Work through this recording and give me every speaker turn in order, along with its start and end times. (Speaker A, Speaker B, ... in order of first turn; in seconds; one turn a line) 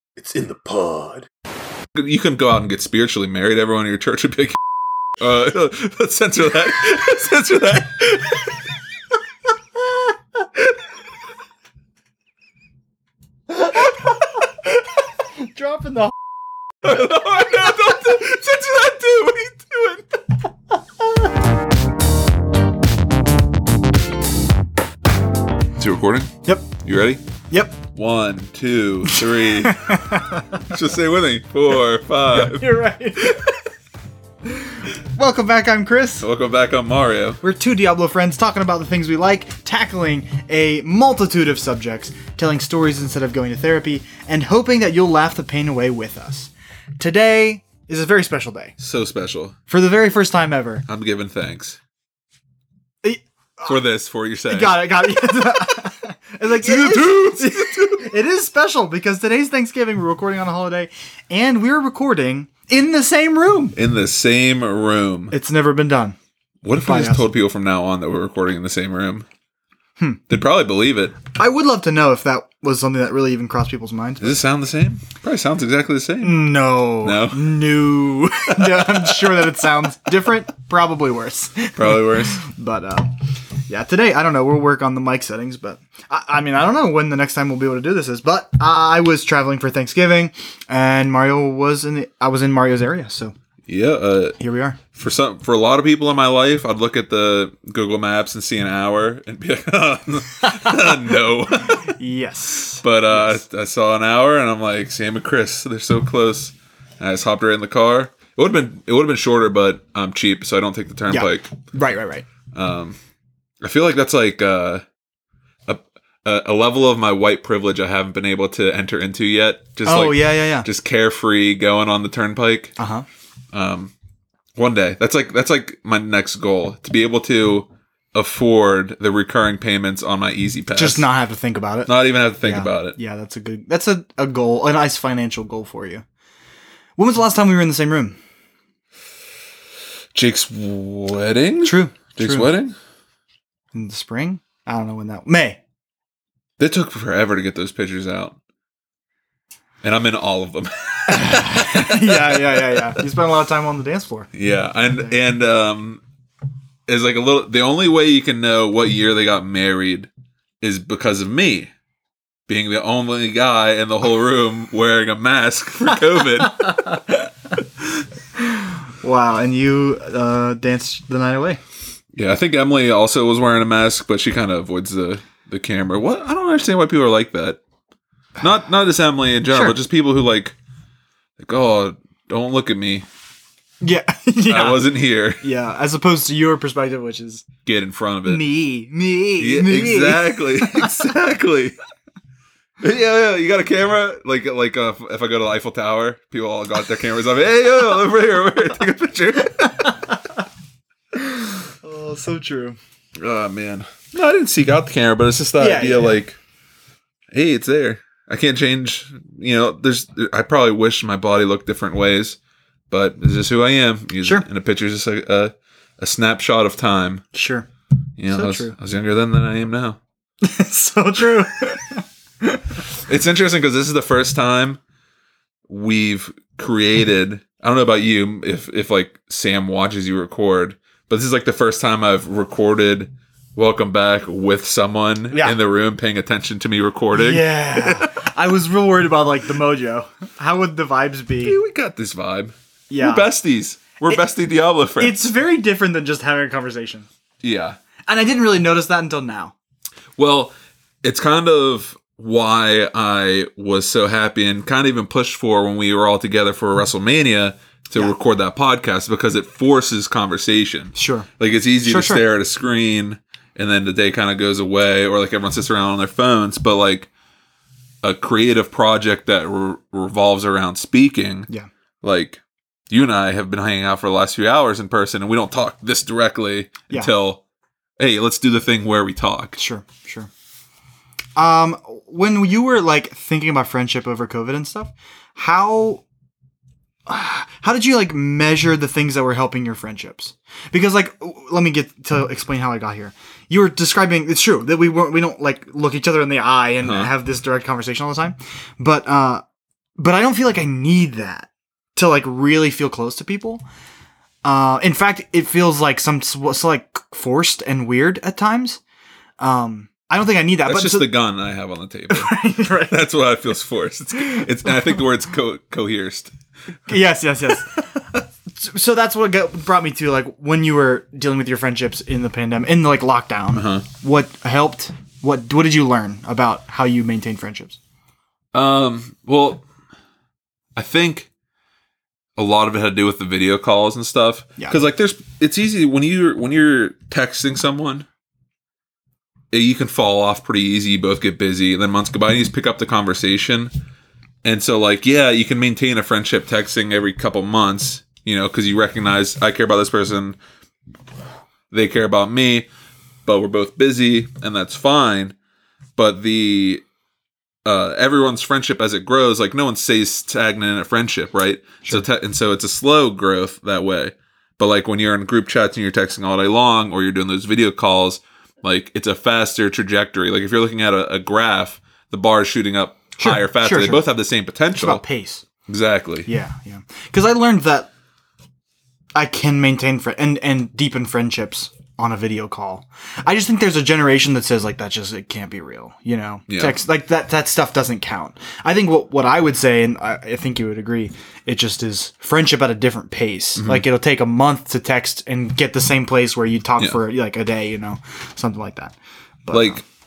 Speaker A: 0.2-1.3
Speaker A: 1.9-4.6
Speaker A: 5.2-8.6
Speaker B: 13.6-14.0
Speaker B: 15.4-16.1
Speaker A: 16.8-20.1
Speaker A: 25.8-27.2
Speaker B: 27.5-27.8
Speaker A: 27.9-30.0
Speaker B: 29.1-30.8
Speaker A: 30.7-32.7
Speaker B: 32.3-33.5
Speaker B: 34.6-36.3
Speaker A: 36.2-37.4
Speaker B: 37.4-48.8
Speaker A: 48.8-49.6
Speaker B: 49.7-50.9
Speaker A: 50.9-51.8
Speaker B: 53.0-53.8
Speaker A: 53.7-54.8
Speaker B: 54.5-63.8
Speaker A: 56.6-58.1
Speaker A: 63.8-65.3
Speaker B: 65.3-66.2
Speaker A: 66.6-69.3
Speaker B: 66.8-67.3
Speaker A: 70.3-71.2
Speaker B: 71.3-74.3
Speaker A: 74.2-76.5
Speaker B: 76.2-83.1
Speaker A: 77.0-77.6
Speaker A: 78.5-79.3
Speaker A: 81.8-82.4
Speaker B: 83.7-93.3
Speaker A: 93.7-94.4
Speaker B: 94.4-94.8
Speaker A: 94.9-102.0
Speaker B: 101.8-103.4
Speaker A: 102.8-111.5
Speaker B: 111.1-112.3
Speaker A: 112.5-113.0
Speaker A: 113.6-114.8
Speaker A: 115.7-122.8
Speaker B: 119.8-120.7
Speaker B: 122.8-123.1
Speaker A: 123.5-123.9
Speaker A: 124.6-131.1
Speaker B: 130.8-131.9
Speaker A: 131.9-133.0
Speaker B: 132.4-136.1
Speaker B: 137.0-138.2
Speaker A: 140.1-142.8
Speaker B: 141.7-142.5
Speaker B: 143.7-145.6
Speaker A: 146.6-148.4
Speaker A: 149.8-152.9
Speaker B: 151.1-154.3
Speaker A: 154.3-156.0
Speaker A: 156.9-160.1
Speaker A: 160.6-161.7
Speaker A: 162.5-167.9
Speaker B: 168.4-171.6
Speaker A: 172.1-177.6
Speaker A: 178.4-180.6
Speaker B: 179.5-179.8
Speaker A: 181.4-183.1
Speaker B: 183.8-187.5
Speaker A: 184.5-185.4
Speaker A: 187.7-188.4
Speaker B: 188.3-191.1
Speaker A: 189.4-191.8
Speaker A: 192.8-200.0
Speaker B: 201.2-202.8
Speaker A: 203.2-206.4
Speaker B: 205.6-206.2
Speaker A: 207.3-212.4
Speaker A: 212.9-217.2
Speaker B: 217.3-217.7
Speaker A: 218.2-220.0
Speaker B: 218.3-218.8
Speaker B: 220.4-222.6
Speaker A: 223.0-224.8
Speaker A: 225.7-238.2
Speaker B: 235.3-235.6
Speaker B: 237.1-241.6
Speaker A: 241.4-245.2
Speaker B: 242.9-243.3
Speaker B: 245.0-247.1
Speaker A: 247.4-247.8
Speaker B: 248.1-249.5
Speaker A: 250.2-267.1
Speaker B: 260.9-261.3
Speaker B: 261.8-262.2
Speaker A: 268.0-271.5
Speaker A: 272.0-277.4
Speaker A: 278.0-279.6
Speaker B: 279.6-280.3
Speaker B: 281.4-286.0
Speaker B: 287.1-299.4
Speaker A: 296.8-297.1
Speaker B: 300.0-303.6
Speaker B: 304.4-308.8
Speaker B: 309.4-311.1
Speaker A: 310.6-312.4
Speaker B: 312.1-313.0
Speaker A: 312.9-316.3
Speaker B: 316.9-327.8
Speaker A: 323.5-323.9
Speaker A: 328.5-329.6
Speaker A: 330.8-331.3
Speaker A: 332.4-338.1
Speaker A: 339.5-343.7
Speaker A: 344.4-350.4
Speaker A: 351.7-352.7
Speaker A: 353.2-355.4
Speaker A: 356.0-356.8
Speaker A: 357.6-375.0
Speaker B: 373.2-374.0
Speaker B: 374.8-375.4
Speaker A: 375.7-376.3
Speaker B: 376.3-377.9
Speaker B: 379.1-399.8
Speaker A: 386.5-386.8
Speaker A: 393.6-393.9
Speaker A: 399.5-399.8